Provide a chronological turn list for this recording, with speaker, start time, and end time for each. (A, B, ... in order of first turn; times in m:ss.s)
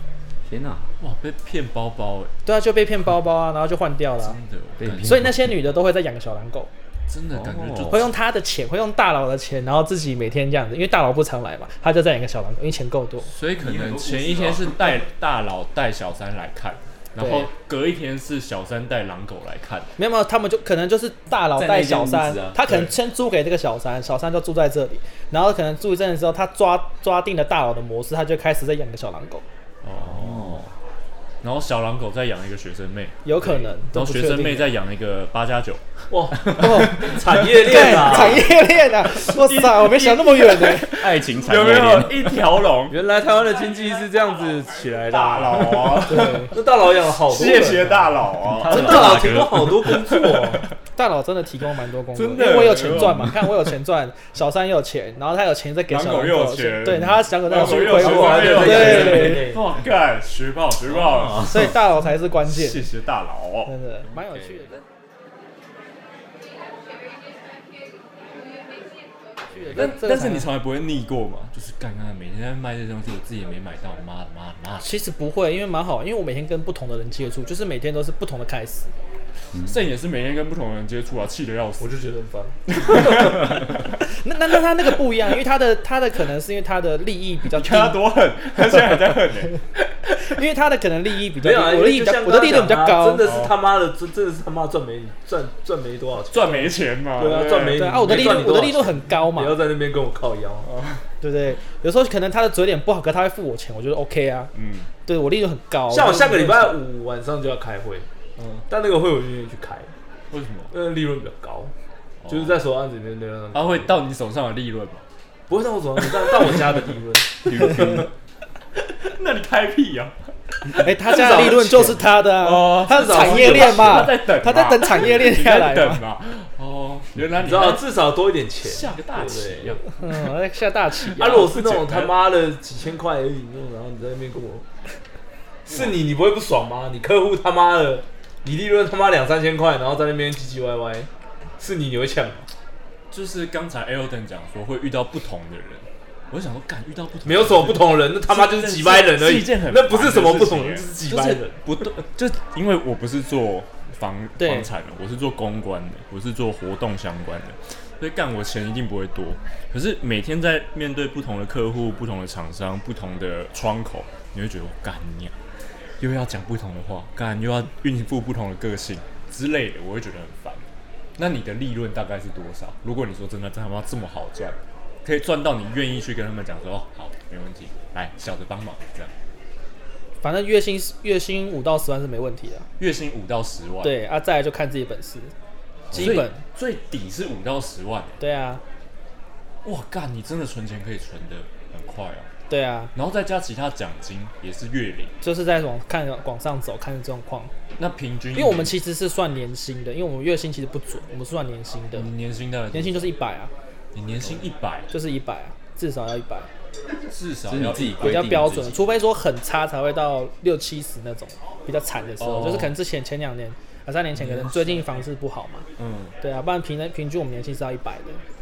0:00.5-0:01.0 A
0:01.0-0:02.3 B
0:02.4-0:04.4 C
0:04.2-0:05.4 B
0:04.8-0:05.4 A
0:05.0-0:06.7 C
0:07.1-0:08.1 B
0:07.3-0:08.1 A
0:07.9-0:13.3 C
0:13.3-0:19.9 B
0:13.6-0:14.8 A
0:17.2-0:17.5 C
0:20.0-0:29.4 C
0:21.6-0:22.6 A
0:22.6-0:22.9 B
0:29.8-0:30.6 B
0:30.0-0:30.7 A
0:31.4-0:35.9 B
0:33.2-0:34.7 C
0:36.1-0:38.5 D
0:36.6-0:41.0 C
0:36.6-0:38.4 B
0:36.6-0:36.9 A
0:39.1-0:43.0 B
0:40.6-0:42.4 A
0:42.9-0:50.7 D
0:45.1-0:50.6 B
0:46.1-0:46.6 C
0:48.6-0:49.9 A
0:48.7-0:49.3 C
0:51.0-0:59.5 C
0:52.2-0:53.6 B
0:55.9-1:01.8 B
0:57.5-0:59.7 D
1:00.9-1:01.7 A
1:01.4-1:02.9 C
1:02.4-1:03.7 B
1:03.7-1:04.8 C
1:04.1-1:04.7 A
1:09.5-1:10.5 C
1:09.7-1:15.0 B
1:14.8-1:18.9 C
1:19.5-1:22.0 B
1:21.8-1:23.0 D
1:22.7-1:24.0 B
1:24.0-1:28.0 C
1:27.5-1:29.7 B
1:30.2-1:33.3 C
1:31.4-1:40.7 D
1:33.2-1:33.5 B
1:36.3-1:38.5 B
1:37.7-1:39.6 C
1:40.7-1:41.0 B
1:41.2-1:44.5 C
1:44.5-1:44.9 B
1:45.1-1:46.8 C
1:45.9-1:48.1 D
1:48.4-1:48.6 B
1:48.7-1:49.9 D
1:50.3-1:50.7 B
1:50.7-1:51.7 D
1:52.2-1:52.6 B
1:52.3-1:53.9 D
1:53.5-1:55.0 B
1:55.5-1:58.0 D
1:56.0-1:56.6 B
1:57.4-1:58.1 B
1:58.8-2:01.6 B
2:00.8-2:06.0 C
2:01.1-2:02.0 D
2:02.3-2:07.9 B
2:02.9-2:04.1 D
2:07.4-2:09.8 D
2:08.6-2:10.0 B
2:10.0-2:11.5 C
2:11.0-2:12.2 B
2:11.2-2:14.7 D
2:15.7-2:15.9 B
2:15.7-2:22.5 D
2:23.1-2:45.4 B
2:27.2-2:31.9 D
2:34.4-2:34.7 C
2:46.0-2:50.6 B
2:51.2-2:59.1 B
3:00.2-3:02.7 C
3:02.8-3:03.9 B
3:03.8-3:05.3 C
3:05.9-3:06.4 C
3:05.9-3:08.2 B
3:05.9-3:06.2 A
3:08.2-3:08.6 C
3:09.6-3:12.3 B
3:12.5-3:12.9 C
3:13.0-3:15.1 B
3:15.2-3:17.5 C
3:17.8-3:18.7 B
3:18.3-3:22.1 C
3:22.0-3:23.1 B
3:22.7-3:23.5 C
3:23.9-3:24.9 B
3:24.9-3:26.5 C
3:27.0-3:28.2 B
3:27.5-3:28.8 A
3:27.8-3:35.7 C
3:32.2-3:32.7 B
3:34.1-3:35.0 B
3:35.8-3:36.2 B
3:36.2-3:38.2 C